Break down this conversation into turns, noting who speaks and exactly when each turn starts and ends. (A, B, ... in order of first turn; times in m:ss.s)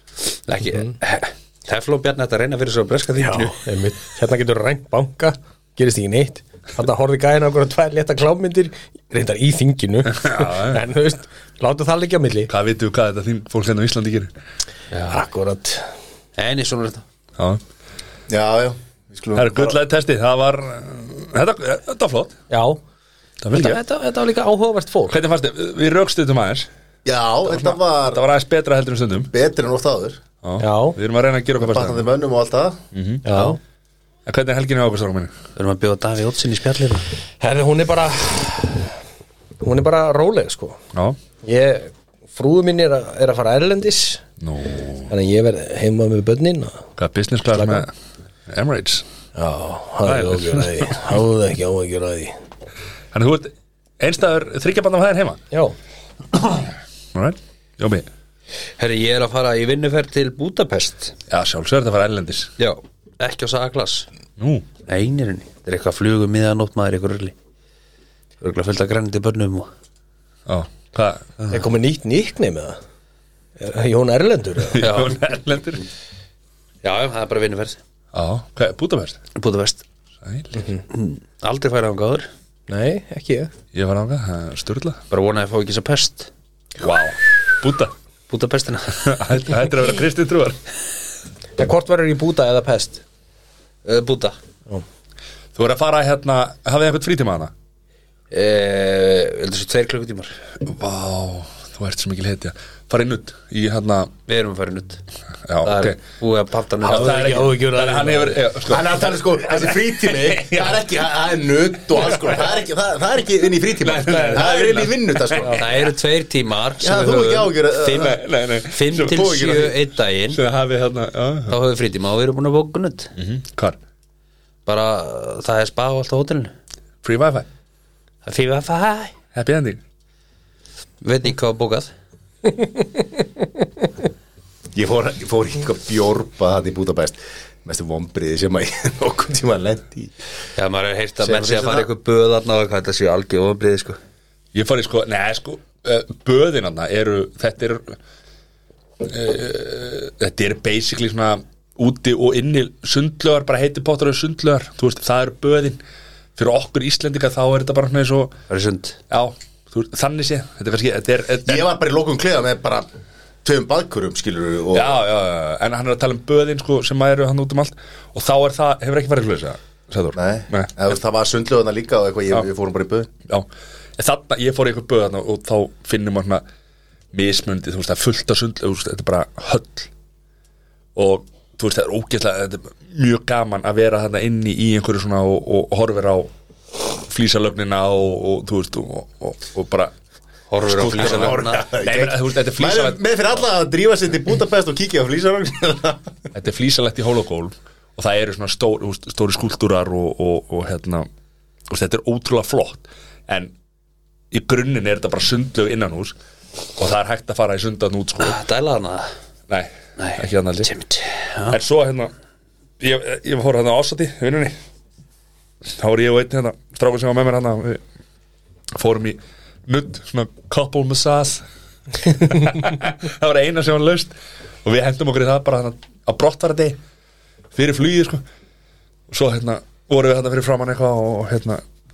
0:00.5-0:03.7 A
0:03.2-0:12.5 B
0:10.1-0:10.8 C
0:12.5-0:14.3 C
0:15.0-0:15.9 B
0:16.4-0:17.0 A
0:18.3-0:19.8 D
0:19.4-0:22.4 C
0:22.5-0:22.8 B
0:23.4-0:23.8 C
0:23.5-0:25.2 B
0:25.1-0:26.7 C
0:27.0-0:28.2 D
0:27.5-0:29.3 C
0:29.3-0:30.2 D
0:30.4-0:32.1 C
0:30.6-0:31.0 B
0:31.6-0:32.8 D
0:32.9-0:33.5 C
0:33.2-0:33.6 B
0:34.3-0:35.3 C
0:35.6-0:37.0 A
0:37.4-0:38.9 B
0:39.6-0:40.8 B
0:41.4-0:44.2 B
0:44.4-0:45.1 C
0:45.1-0:46.8 B
0:47.0-0:47.9 C
0:47.5-0:47.8 B
0:48.5-0:49.1 C
0:49.4-0:52.4 B
0:50.0-0:50.9 C
0:53.1-0:55.4 C
0:57.1-0:58.1 C
0:58.8-1:01.2 A
1:01.3-1:02.5 C
1:02.6-1:04.1 A
1:04.4-1:04.6 C
1:04.8-1:07.4 A
1:08.4-1:09.7 A
1:10.5-1:11.4 C
1:11.5-1:12.8 B
1:13.6-1:15.0 B
1:14.6-1:15.8 C
1:14.8-1:15.2 A
1:16.8-1:17.8 A
1:18.1-1:19.2 C
1:19.4-1:19.8 A
1:20.2-1:20.6 C
1:20.6-1:20.8 B
1:20.9-1:22.3 A
1:22.7-1:23.5 B
1:23.7-1:25.0 C
1:25.1-1:26.3 A
1:26.8-1:27.9 C
1:28.3-1:29.1 A
1:29.0-1:30.6 C
1:31.6-1:33.0 B
1:33.8-1:34.4 A
1:35.6-1:37.5 C
1:38.3-1:40.3 A
1:40.6-1:44.1 C
1:44.3-1:45.0 A
1:45.4-1:46.0 C
1:45.6-1:47.5 A
1:46.8-1:50.8 C
1:46.8-1:48.4 B
1:48.6-1:55.7 D
1:53.8-1:55.6 C
1:54.1-1:54.4 B
1:55.4-1:55.6 B
1:55.6-2:00.4 A
1:56.8-1:58.2 D
1:57.9-1:59.8 C
1:59.1-1:59.7 D
2:00.3-2:01.6 C
2:01.5-2:03.1 A
2:03.2-2:03.8 C
2:04.6-2:06.5 A
2:07.0-2:07.5 C
2:08.2-2:09.1 A
2:09.3-2:09.8 C
2:11.0-2:11.9 A
2:14.7-2:20.1 D
2:20.6-2:24.0 A
2:21.2-2:21.9 D
2:24.5-2:28.0 C
2:29.0-2:35.8 C
2:36.4-2:38.4 C
2:38.5-2:39.0 A
2:39.1-2:41.6 C
2:41.4-2:42.9 D
2:43.4-2:45.0 D
2:44.7-2:50.7 C
2:50.2-2:53.1 D
2:53.3-2:56.4 C
2:57.1-2:59.9 C
3:00.9-3:06.3 C
3:06.9-3:09.9 C
3:10.5-3:11.6 A
3:10.6-3:13.0 C
3:10.9-3:16.2 D
3:16.4-3:21.1 C
3:21.7-3:23.5 C
3:24.3-3:26.2 C
3:26.8-3:28.4 C
3:28.2-3:29.1 A
3:29.5-3:30.7 C
3:30.0-3:31.6 A
3:31.5-3:32.1 C
3:32.8-3:34.6 C
3:35.8-3:37.8 C
3:38.7-3:41.4 C
3:42.0-3:44.1 C
3:44.6-3:46.8 C
3:47.5-3:48.2 C
3:49.1-3:51.6 C